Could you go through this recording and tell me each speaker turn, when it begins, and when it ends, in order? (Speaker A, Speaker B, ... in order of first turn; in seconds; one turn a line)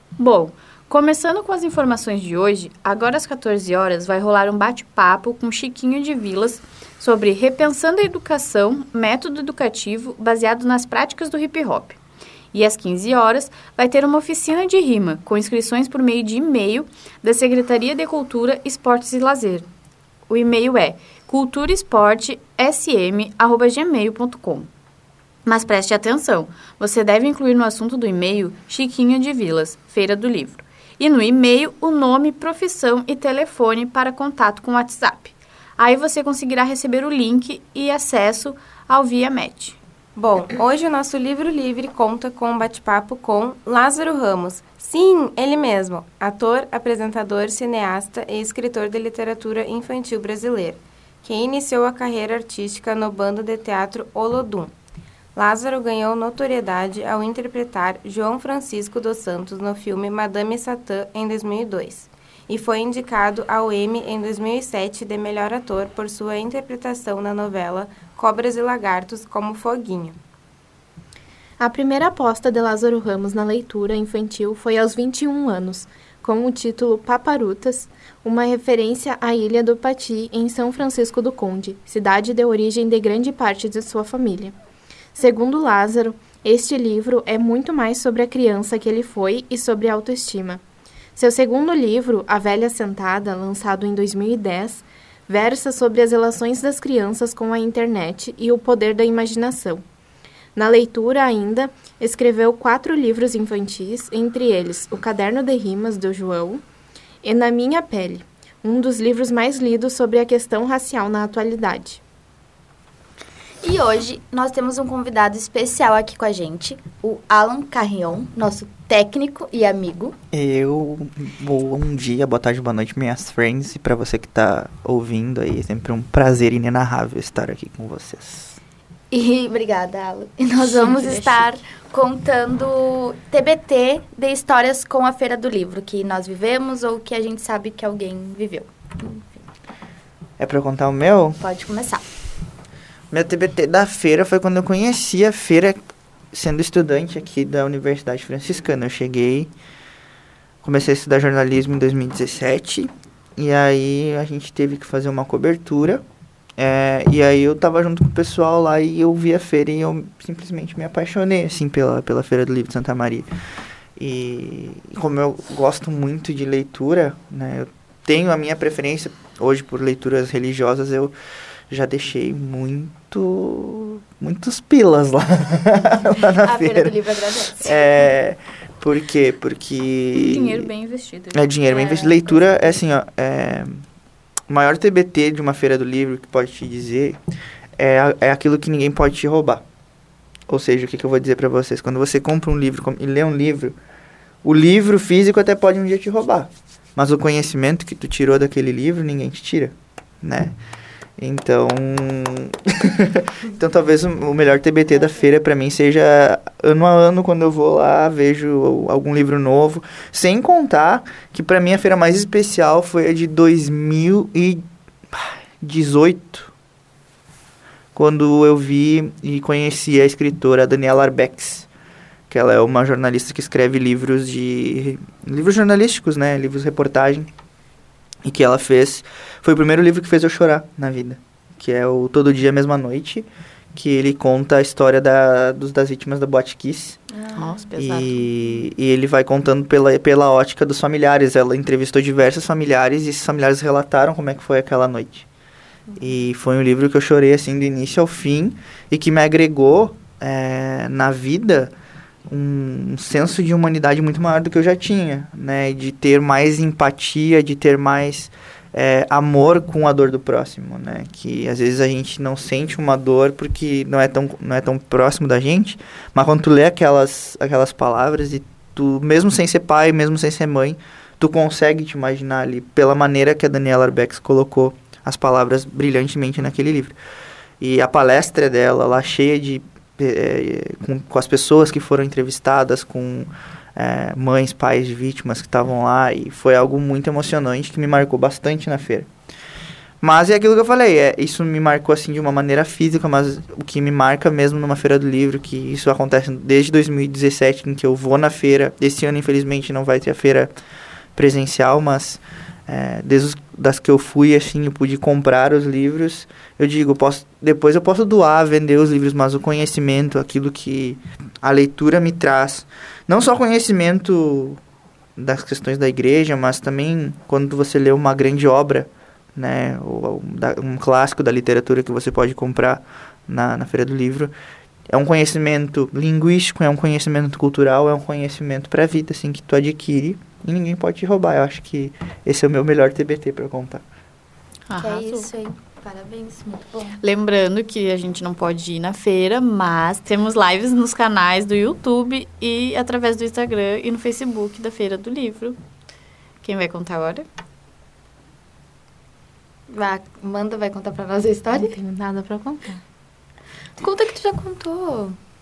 Speaker A: 0.2-12.0
Speaker A: 12.5-19.6
Speaker A: 20.3-24.7
Speaker A: 25.5-39.8
Speaker B: 40.2-54.7
Speaker B: 55.4-70.2
Speaker C: 71.6-84.5
Speaker C: 85.2-90.6
Speaker C: 91.2-99.8
Speaker C: 100.5-106.6
Speaker C: 107.2-112.0
Speaker D: 113.6-120.2
Speaker E: 120.3-128.6
Speaker D: 129.1-139.4
Speaker A: 130.6-131.6
Speaker E: 140.4-141.4
Speaker D: 141.4-142.0
Speaker E: 143.1-149.5
Speaker E: 150.6-156.0
Speaker E: 156.6-163.3
Speaker E: 164.0-171.1
Speaker E: 171.7-176.9
Speaker D: 176.4-177.8
Speaker E: 177.6-180.7
Speaker A: 180.2-182.4
Speaker E: 181.3-183.8
Speaker E: 184.5-187.2
Speaker E: 187.8-189.6
Speaker E: 190.5-193.8
Speaker E: 194.4-200.6
Speaker E: 201.2-216.5
Speaker E: 217.9-221.7
Speaker E: 222.3-227.3
Speaker E: 228.2-237.0
Speaker D: 237.2-237.6
Speaker A: 237.4-238.3
Speaker E: 237.8-245.3
Speaker E: 246.0-251.7
Speaker E: 252.3-277.0
Speaker E: 277.6-289.1
Speaker E: 290.0-300.5
Speaker E: 301.2-314.6
Speaker E: 315.2-324.3
Speaker E: 324.9-333.8
Speaker A: 334.7-335.3
Speaker D: 334.8-337.0
Speaker A: 337.0-345.6
Speaker A: 346.4-347.2
Speaker D: 349.7-351.8
Speaker C: 351.6-352.8
Speaker D: 353.8-355.2